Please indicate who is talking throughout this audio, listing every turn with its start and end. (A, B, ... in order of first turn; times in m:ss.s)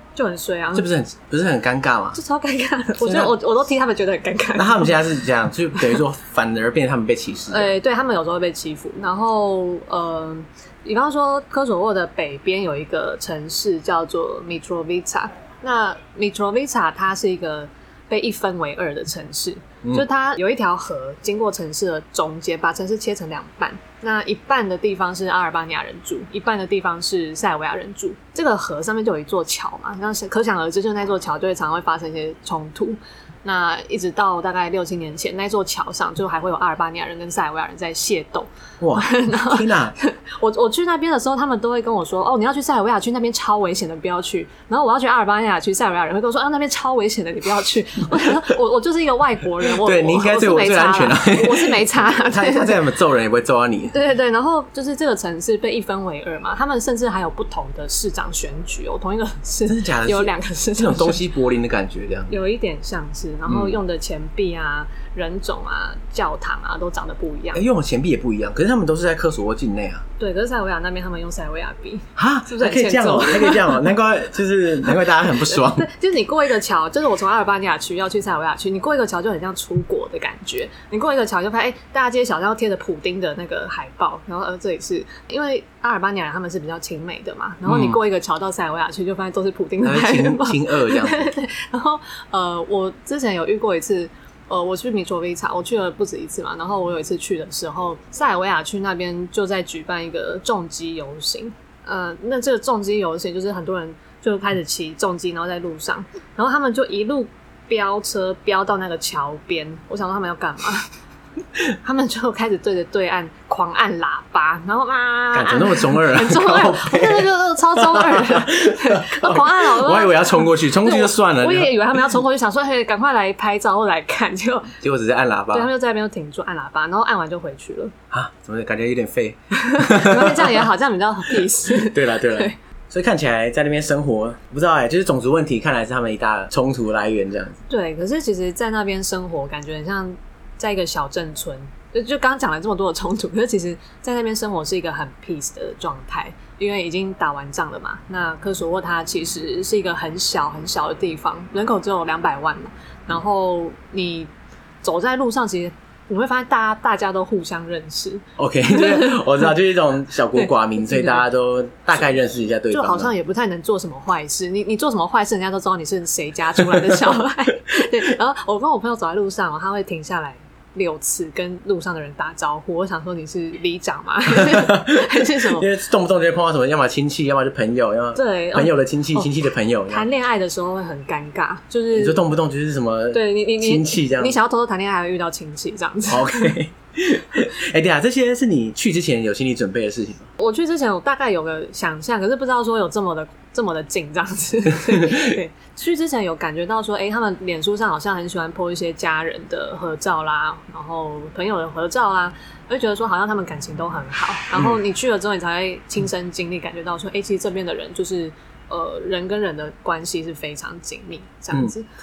0:00.2-0:00.9 A
0:00.7-0:02.2 B
0:02.1-0:05.1 A
0:03.0-0:03.3 B
0:04.6-0:07.7 B
0:07.5-0:52.8 A
0:38.8-0:39.9 B
0:49.7-0:54.0 B
0:53.9-1:01.2 A
0:59.7-1:02.3 B
1:02.3-1:07.6 A
1:03.5-1:03.8 B
1:07.5-1:10.0 B
1:10.2-1:13.9 A
1:12.2-1:15.9 B
1:15.4-1:50.9 A
1:27.6-1:28.0 B
1:29.8-1:31.3 B
1:51.8-2:04.7 A
1:55.3-2:01.7 B
2:04.8-2:05.7 B
2:05.5-2:07.9 A
2:08.1-2:10.6 B
2:09.5-2:12.6 A
2:11.8-2:17.6 B
2:17.7-2:39.5 A
2:38.4-2:43.1 B
2:40.3-2:41.2 A
2:42.7-2:55.7 A
2:54.4-3:00.0 B
2:58.2-2:59.3 A
2:59.9-3:02.2 A
3:01.9-3:04.3 B
3:03.1-3:06.5 A
3:06.1-3:10.3 B
3:10.4-3:31.8 A
3:14.9-3:15.3 B